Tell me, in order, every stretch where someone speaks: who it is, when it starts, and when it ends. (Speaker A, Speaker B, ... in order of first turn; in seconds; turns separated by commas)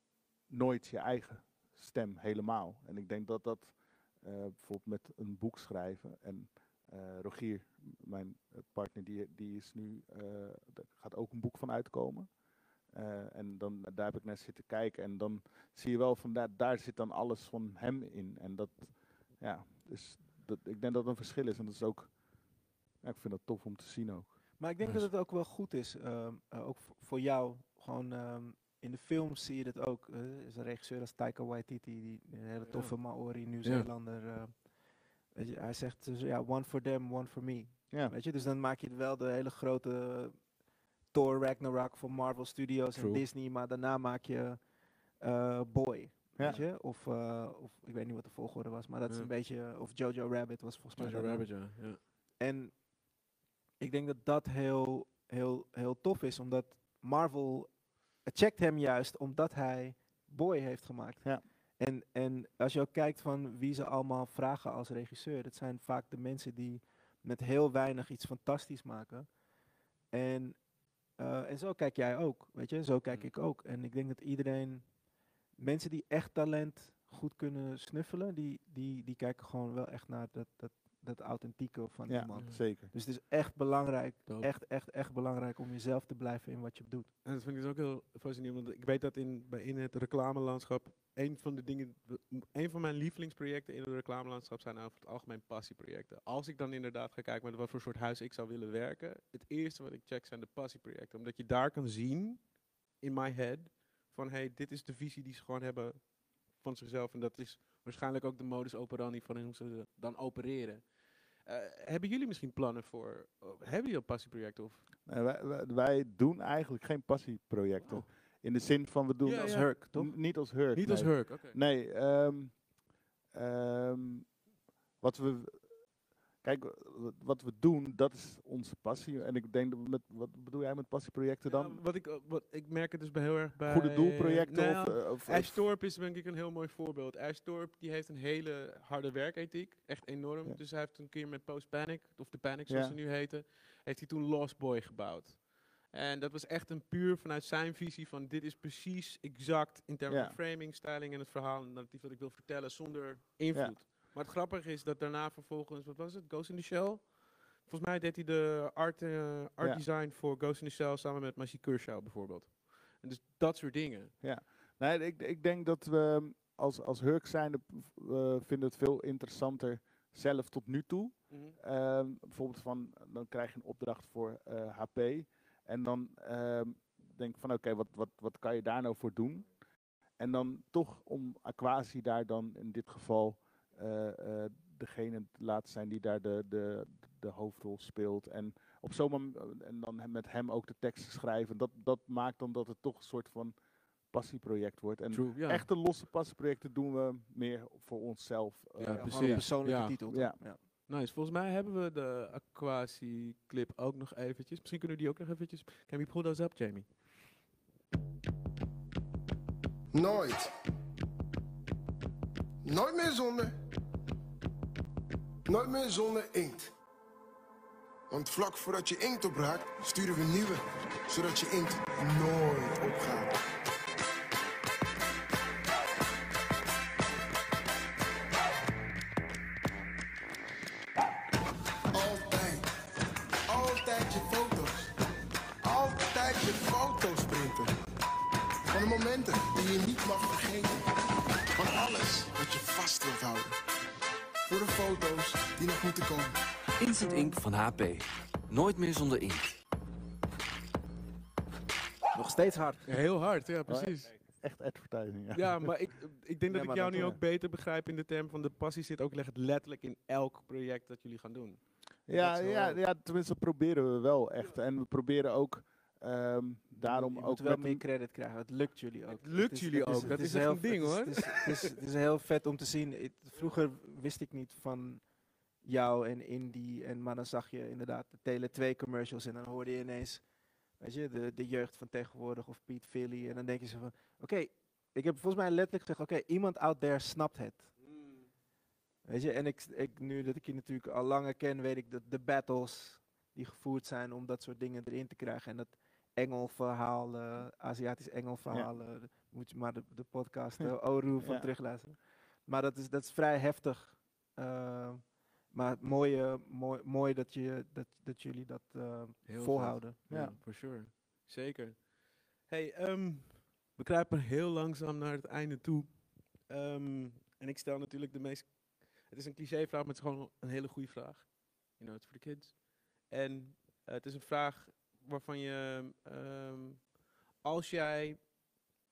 Speaker A: 0.5-12.3, Speaker A: 12.9-22.2, Speaker A: 23.0-24.4, Speaker B: 24.6-34.7, Speaker C: 32.7-33.9, Speaker B: 35.3-40.4, Speaker B: 41.1-44.6, Speaker C: 42.9-43.2, Speaker B: 45.2-51.8, Speaker C: 51.0-52.0, Speaker B: 52.4-52.8, Speaker B: 53.8-69.3, Speaker B: 70.1-70.6, Speaker B: 71.2-74.8, Speaker B: 75.6-87.1, Speaker A: 82.1-82.9, Speaker C: 87.2-114.8, Speaker A: 115.0-122.7, Speaker C: 117.8-118.1, Speaker C: 119.2-119.8, Speaker B: 119.3-120.1, Speaker C: 120.7-121.6, Speaker A: 123.3-124.4, Speaker A: 125.0-131.8, Speaker C: 131.4-164.1, Speaker A: 133.6-135.6, Speaker A: 142.7-143.0, Speaker A: 150.1-150.4, Speaker A: 164.2-179.5, Speaker C: 171.3-171.6, Speaker A: 180.2-193.6, Speaker A: 194.1-199.5, Speaker C: 195.1-195.7, Speaker C: 198.8-200.0, Speaker B: 198.9-200.6, Speaker A: 200.1-200.4, Speaker C: 200.6-206.9, Speaker D: 209.9-210.5, Speaker D: 212.6-213.6, Speaker D: 215.5-216.7, Speaker D: 218.1-223.3, Speaker D: 231.9-232.7, Speaker D: 233.5-234.9, Speaker D: 235.6-237.7, Speaker D: 238.7-240.9, Speaker D: 241.5-243.6, Speaker D: 244.5-246.4, Speaker E: 246.8-249.6, Speaker B: 246.9-247.3, Speaker B: 252.1-252.9, Speaker C: 252.8-254.1, Speaker A: 253.7-255.8, Speaker C: 255.3-261.6, Speaker B: 256.5-257.2, Speaker A: 262.1-267.8, Speaker B: 262.2-262.8, Speaker B: 266.8-275.0, Speaker C: 269.1-271.7, Speaker B: 275.6-280.2, Speaker B: 280.8-287.7, Speaker C: 287.8-288.3, Speaker B: 289.1-310.0, Speaker A: 301.2-301.5, Speaker C: 309.3-328.2, Speaker A: 310.1-310.4